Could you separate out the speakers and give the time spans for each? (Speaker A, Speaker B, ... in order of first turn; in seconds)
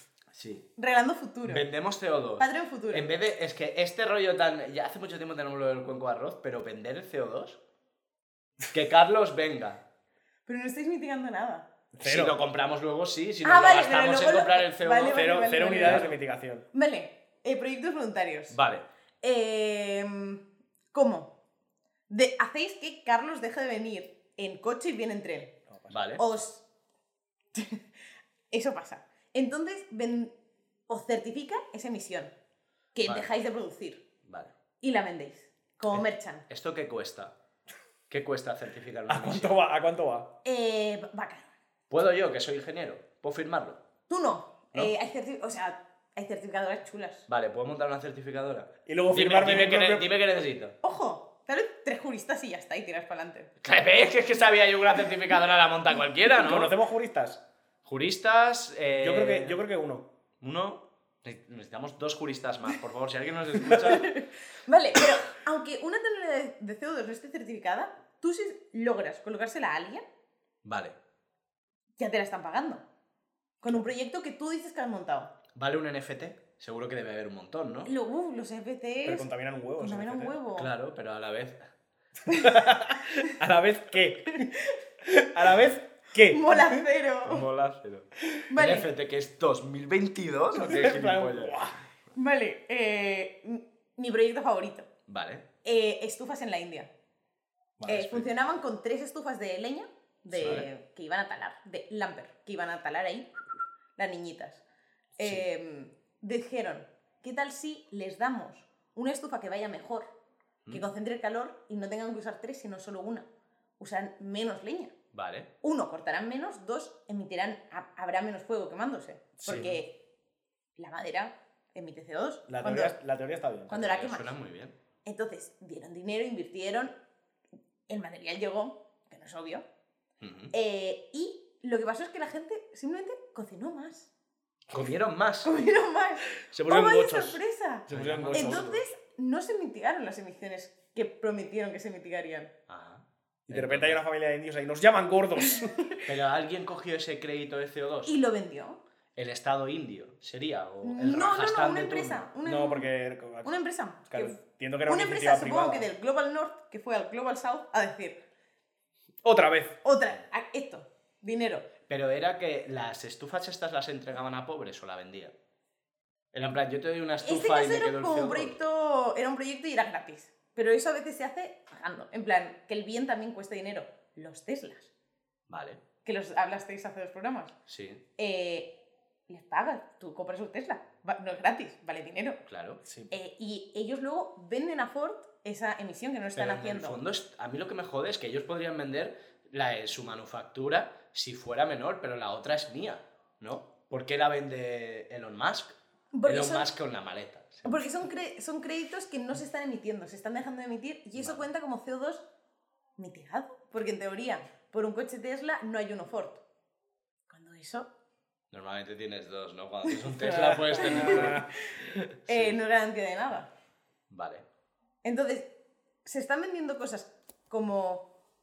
Speaker A: 0.3-0.7, 1.4-7.6, 8.7-9.8, 12.0-16.1, 18.5-18.9, 25.9-26.2, 34.2-34.5, 35.9-37.4, 38.1-39.7, 41.9-43.8, 47.3-50.8, 53.6-56.7, 57.9-59.6, 60.4-64.1, 70.6-71.0, 75.5-77.9, 80.5-81.7, 87.2-91.7, 95.1-95.5, 100.3-100.7, 115.1-115.5, 119.5-119.8, 123.8-124.7, 130.2-130.5, 134.7-135.5, 137.9-138.8, 142.7-144.0, 146.0-148.1, 149.2-152.3, 161.9-165.3, 166.3-168.6, 175.5-175.8, 177.7-178.0, 182.5-182.8, 186.4-197.9, 201.2-201.5, 208.5-212.6, 214.1-214.4
Speaker B: 0.8-1.6, 2.4-3.1, 10.5-11.7, 13.4-16.1, 16.7-18.6, 19.2-21.3, 22.1-25.6, 26.2-26.6, 27.5-27.8, 28.5-30.3, 30.9-32.3, 33.0-34.0, 34.8-36.5, 40.4-41.5, 44.1-47.3, 50.8-53.5, 63.7-70.0, 72.0-72.8, 73.6-75.3, 77.9-80.7, 82.3-82.6, 84.3-84.8, 86.2-87.5, 88.5-88.9, 92.1-94.9, 95.6-96.9, 97.9-103.3, 104.0-104.6, 105.2-110.1, 110.7-113.3, 113.8-114.9, 115.6-120.0, 120.8-123.0, 123.7-124.3, 125.0-127.0, 127.9-129.7, 130.5-134.1, 135.4-142.5, 145.5-146.0, 148.1-148.8, 150.8-152.9, 153.4-158.2, 159.8-161.7, 167.2-174.9, 176.1-177.6, 178.2-178.8, 179.3-182.4, 183.1-187.0, 196.1-196.7, 197.6-202.3, 203.0-206.4, 207.3-207.9, 210.1-211.7, 212.3-213.5, 215.0-215.5, 216.1-218.1
Speaker C: 12.0-12.4, 15.1-16.6, 25.7-25.9, 39.1-40.3, 48.9-50.1, 56.4-57.4, 58.9-60.1, 79.0-80.4, 82.3-84.5, 85.0-86.8, 90.6-91.7, 97.8-98.3, 119.4-119.7, 122.5-123.9, 136.5-138.7, 143.5-145.8, 152.4-155.9, 159.2-159.8, 182.8-183.1, 210.2-211.5